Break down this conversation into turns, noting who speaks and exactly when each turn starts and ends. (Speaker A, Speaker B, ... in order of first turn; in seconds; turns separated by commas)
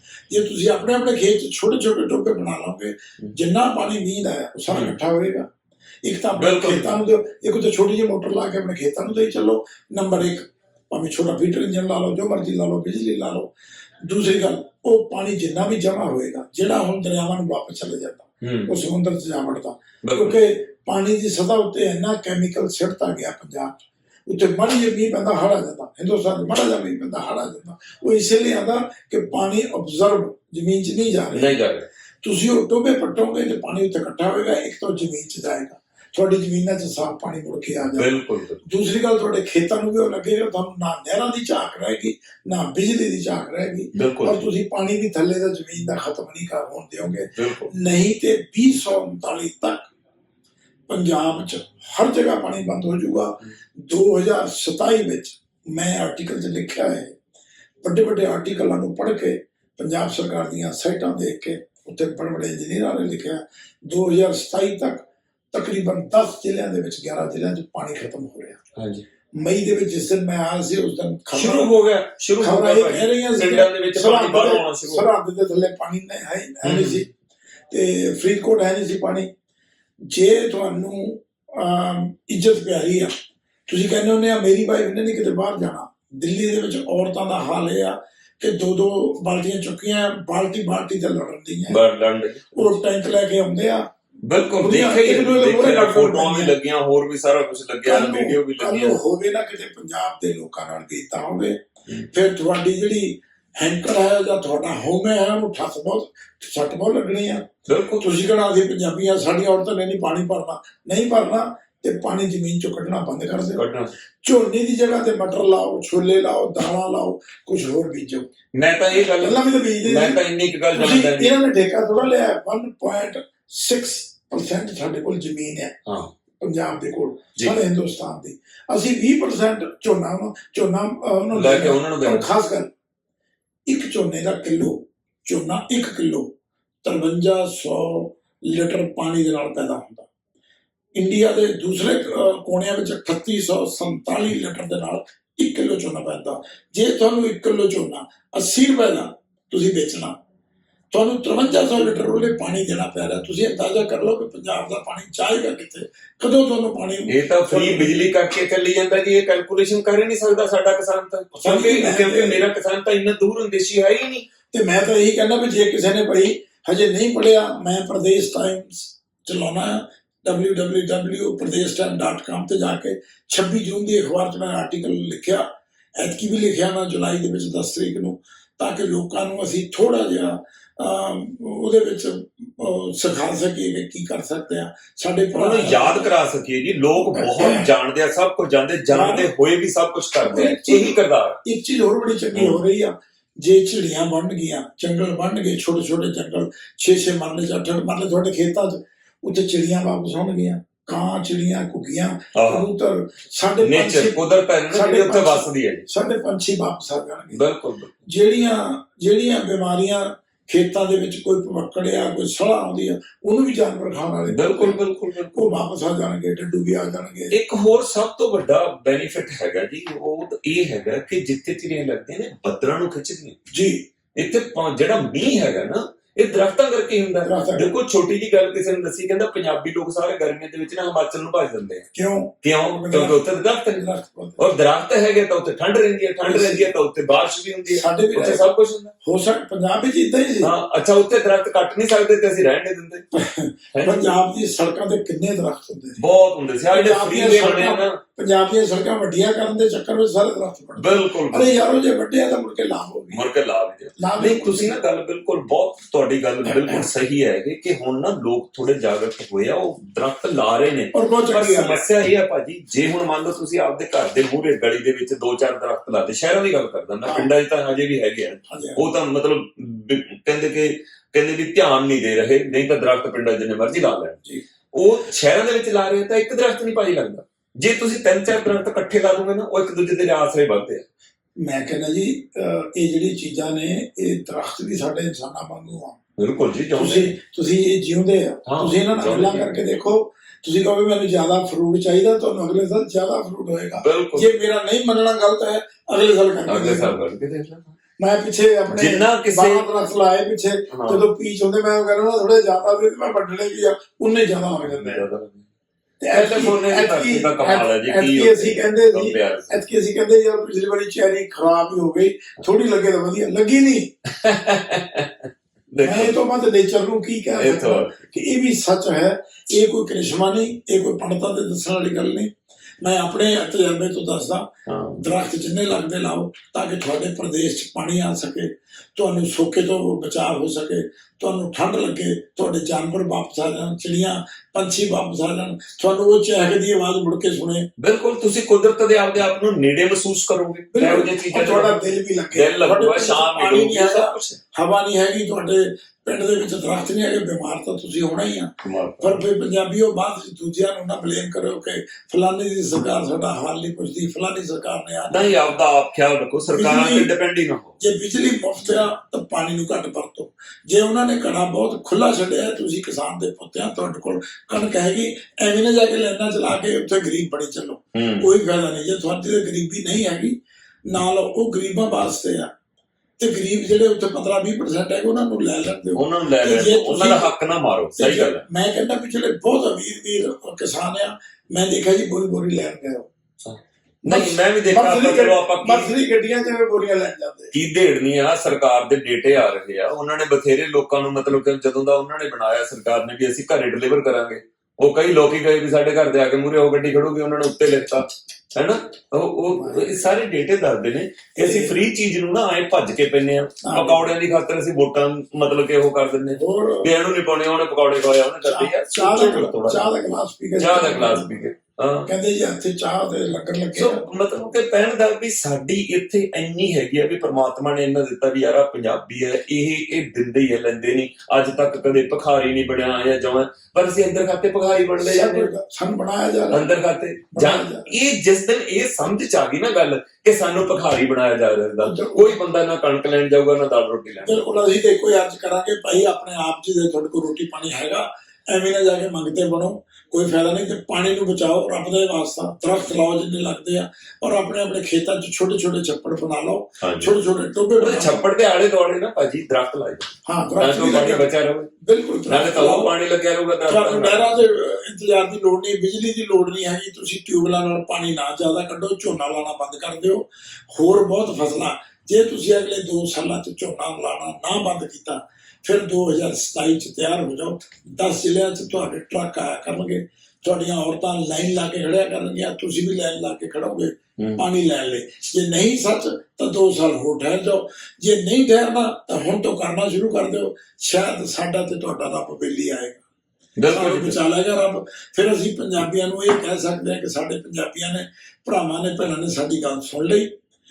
Speaker A: 0.3-5.5, Speaker B: 4.7-4.9, Speaker A: 6.0-13.5, Speaker B: 6.4-6.9, Speaker A: 14.0-23.8, Speaker B: 18.4-18.7, Speaker B: 20.0-20.4, Speaker A: 24.3-31.5, Speaker B: 31.3-31.9, Speaker A: 32.2-38.1, Speaker B: 38.0-38.6, Speaker A: 38.6-49.9, Speaker B: 43.9-44.5, Speaker B: 47.3-47.7, Speaker A: 50.9-57.1, Speaker A: 57.8-68.6, Speaker B: 68.8-69.0, Speaker A: 69.3-71.7, Speaker B: 71.3-75.1, Speaker A: 72.4-77.1, Speaker B: 76.6-77.0, Speaker A: 77.7-79.3, Speaker A: 80.1-83.1, Speaker A: 83.7-91.8, Speaker B: 91.7-92.8, Speaker A: 92.5-93.8, Speaker B: 94.2-99.0, Speaker A: 94.6-96.5, Speaker A: 97.8-113.6, Speaker B: 107.7-108.0, Speaker B: 113.5-113.9, Speaker A: 114.2-118.3, Speaker B: 118.5-121.4, Speaker A: 119.2-120.2, Speaker A: 120.7-125.7, Speaker B: 125.8-126.1, Speaker A: 126.4-132.7, Speaker B: 131.3-132.3, Speaker A: 133.7-140.1, Speaker A: 140.9-150.2, Speaker A: 150.9-158.1, Speaker B: 157.1-164.3, Speaker A: 161.4-162.4, Speaker A: 164.5-186.1, Speaker B: 185.3-191.4, Speaker A: 186.9-187.7, Speaker A: 188.9-189.3, Speaker A: 190.2-204.2, Speaker B: 192.3-192.6, Speaker B: 202.3-202.7, Speaker B: 203.6-205.9, Speaker A: 204.7-207.4, Speaker B: 207.3-207.9, Speaker A: 208.1-214.8, Speaker B: 214.3-215.5, Speaker A: 215.3-217.3, Speaker B: 217.3-223.4, Speaker A: 223.5-223.8, Speaker B: 224.1-231.8, Speaker A: 227.2-227.7, Speaker A: 231.9-234.4, Speaker B: 232.4-233.8, Speaker B: 234.4-238.9, Speaker A: 236.2-236.7, Speaker A: 237.7-238.4, Speaker A: 239.0-240.5, Speaker B: 240.4-243.0, Speaker A: 243.1-246.0, Speaker B: 243.7-244.1, Speaker B: 246.0-248.0, Speaker A: 246.7-253.2, Speaker B: 250.8-251.7, Speaker B: 253.1-274.2, Speaker A: 254.0-254.8, Speaker A: 256.4-256.9, Speaker A: 260.9-261.8, Speaker A: 267.0-267.3, Speaker A: 268.5-268.8, Speaker B: 274.7-280.9, Speaker A: 281.4-286.0, Speaker B: 286.2-287.1, Speaker A: 286.7-296.9, Speaker B: 288.4-289.6, Speaker B: 293.8-294.3, Speaker B: 296.5-297.7, Speaker A: 298.0-305.0, Speaker B: 298.7-299.6, Speaker B: 300.7-301.0, Speaker B: 304.6-305.4, Speaker A: 306.0-313.9, Speaker B: 306.1-309.6, Speaker B: 314.1-316.2, Speaker A: 315.8-322.3, Speaker B: 317.4-317.9, Speaker A: 322.8-324.5, Speaker B: 324.7-325.0, Speaker A: 325.0-337.7, Speaker B: 337.8-344.4, Speaker A: 340.7-355.4, Speaker B: 348.6-349.2, Speaker B: 355.1-357.8, Speaker A: 356.5-357.1, Speaker A: 357.8-370.4, Speaker B: 367.9-368.3, Speaker A: 370.9-372.5, Speaker A: 373.2-377.3, Speaker B: 375.9-378.4, Speaker A: 377.9-383.1, Speaker B: 383.4-385.9, Speaker A: 384.1-387.5, Speaker B: 387.5-409.8, Speaker A: 399.5-400.1, Speaker A: 401.4-401.7, Speaker A: 403.6-404.1, Speaker A: 406.3-406.9, Speaker A: 408.4-411.4, Speaker B: 410.6-412.1, Speaker A: 412.1-414.1, Speaker B: 413.7-425.5, Speaker A: 425.0-426.7, Speaker B: 426.5-434.5, Speaker A: 427.3-427.9, Speaker A: 431.8-432.4, Speaker A: 434.2-448.2, Speaker B: 446.8-447.1, Speaker B: 447.8-451.7, Speaker A: 450.2-451.3, Speaker A: 451.8-452.9, Speaker B: 452.3-454.4, Speaker A: 453.7-483.0, Speaker B: 474.2-474.4, Speaker B: 483.6-484.2, Speaker A: 483.7-490.3